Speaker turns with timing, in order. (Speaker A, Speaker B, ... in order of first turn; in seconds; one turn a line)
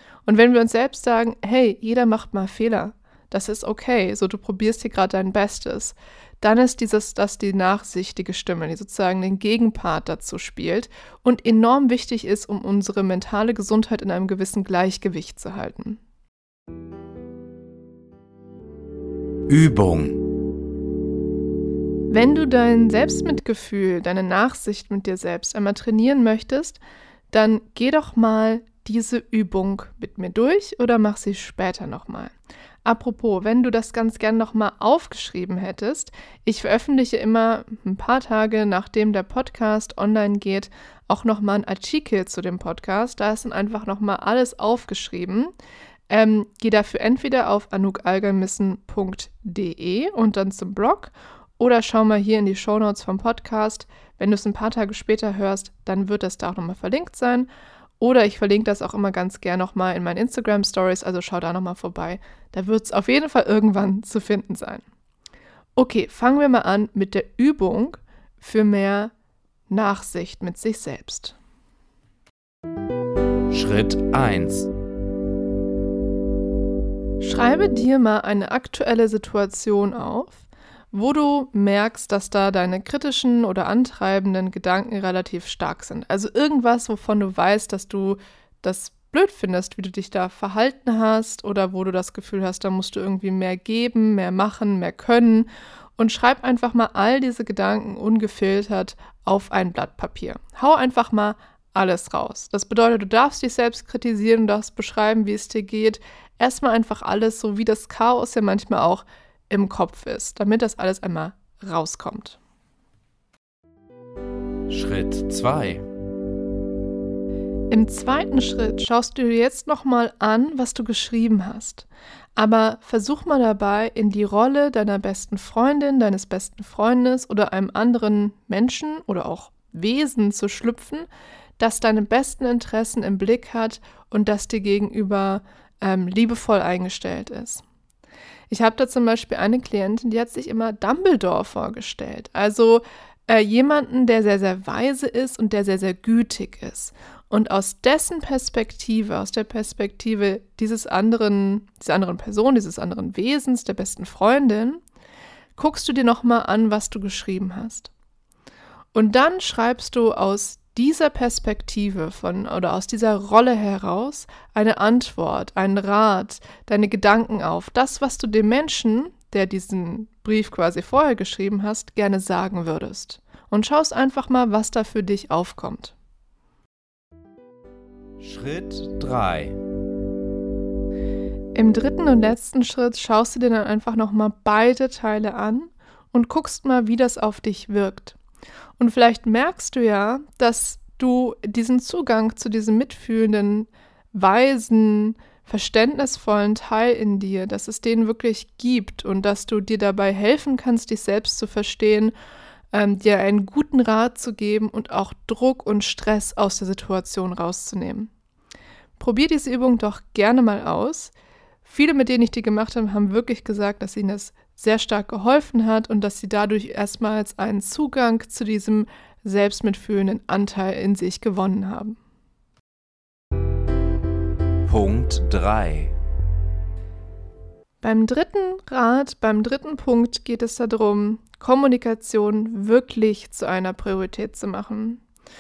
Speaker A: 0.3-16.0
Speaker B: 19.5-20.3
Speaker A: 22.1-26.8
Speaker A: 27.3-32.3
Speaker A: 32.9-45.5
Speaker A: 46.1-57.5
Speaker A: 58.0-64.8
Speaker A: 65.8-69.1
Speaker A: 69.7-71.4
Speaker B: 73.5-74.7
Speaker A: 77.2-112.4
Speaker B: 114.7-115.8
Speaker A: 117.7-131.1
Speaker A: 131.6-137.6
Speaker A: 138.5-154.8
Speaker A: 155.6-157.9
Speaker A: 158.9-175.9
Speaker B: 178.2-179.6
Speaker A: 181.6-188.2
Speaker A: 188.8-202.1
Speaker A: 202.7-208.1
Speaker A: 209.0-211.1
Speaker A: 211.7-222.0
Speaker B: 224.7-225.9
Speaker A: 227.8-235.0